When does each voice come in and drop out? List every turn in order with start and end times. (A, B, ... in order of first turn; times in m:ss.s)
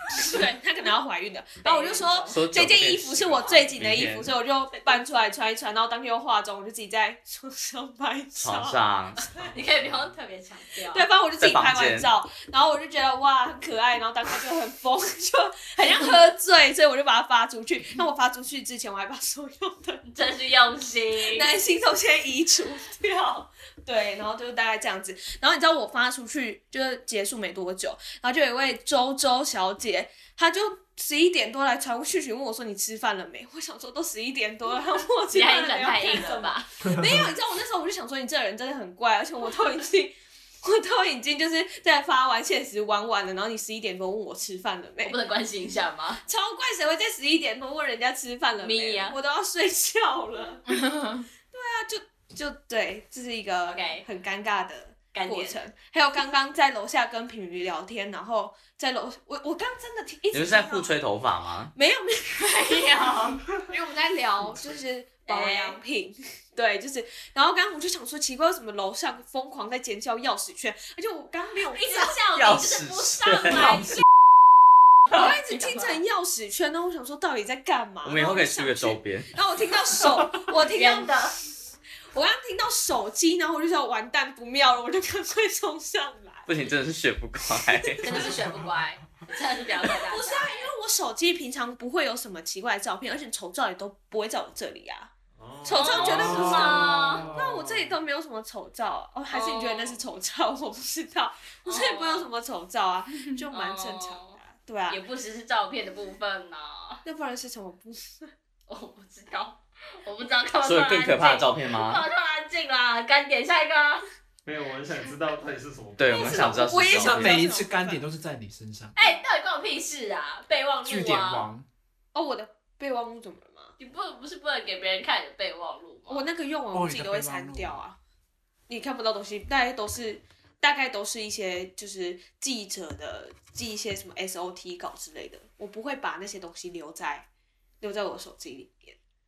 0:00.1-0:09.6 A
0:01.6-0:02.4 B
0:02.3-0:04.3 C
0:08.4-0:09.2 C
0:09.4-0:10.1 D
0:09.4-0:11.1 B
0:10.9-0:20.0 A
0:11.4-0:12.1 C
0:20.1-0:21.5 B
0:21.2-0:45.2 A
0:35.3-0:36.7 B
0:36.8-0:37.3 E
0:45.0-0:46.2 B
0:46.2-0:50.9 A
0:48.6-0:49.2 B
0:51.5-1:00.9 A
0:53.7-0:54.0 B
0:55.1-0:55.6 B
1:00.3-1:01.7 C
1:01.8-1:03.2 A
1:02.4-1:03.4 B
1:03.7-1:12.2 A
1:05.3-1:05.8 B
1:11.7-1:14.0 B
1:12.3-1:13.8 C
1:13.3-1:13.9 D
1:15.1-1:21.3 A
1:18.0-1:19.3 C
1:20.7-1:21.4 B
1:22.1-1:26.5 A
1:26.5-1:28.2 C
1:28.0-1:30.7 B
1:29.8-1:35.1 A
1:35.4-1:37.6 D
1:35.6-1:45.0 A
1:35.7-1:37.3 B
1:36.2-1:37.6 E
1:39.3-1:40.0 B
1:41.6-1:42.3 B
1:43.5-1:47.0 B
1:47.0-1:48.3 A
1:48.7-1:54.0 B
1:50.6-1:52.0 C
1:54.4-1:56.9 D
1:56.0-1:57.4 C
1:56.1-1:58.0 A
1:56.9-1:59.0 E
1:59.0-2:01.5 B
2:00.8-2:01.7 E
2:02.1-2:03.7 A
2:03.8-2:06.3 B
2:06.1-2:08.0 A
2:06.7-2:07.8 E
2:08.7-2:17.3 A
2:17.8-2:19.0 A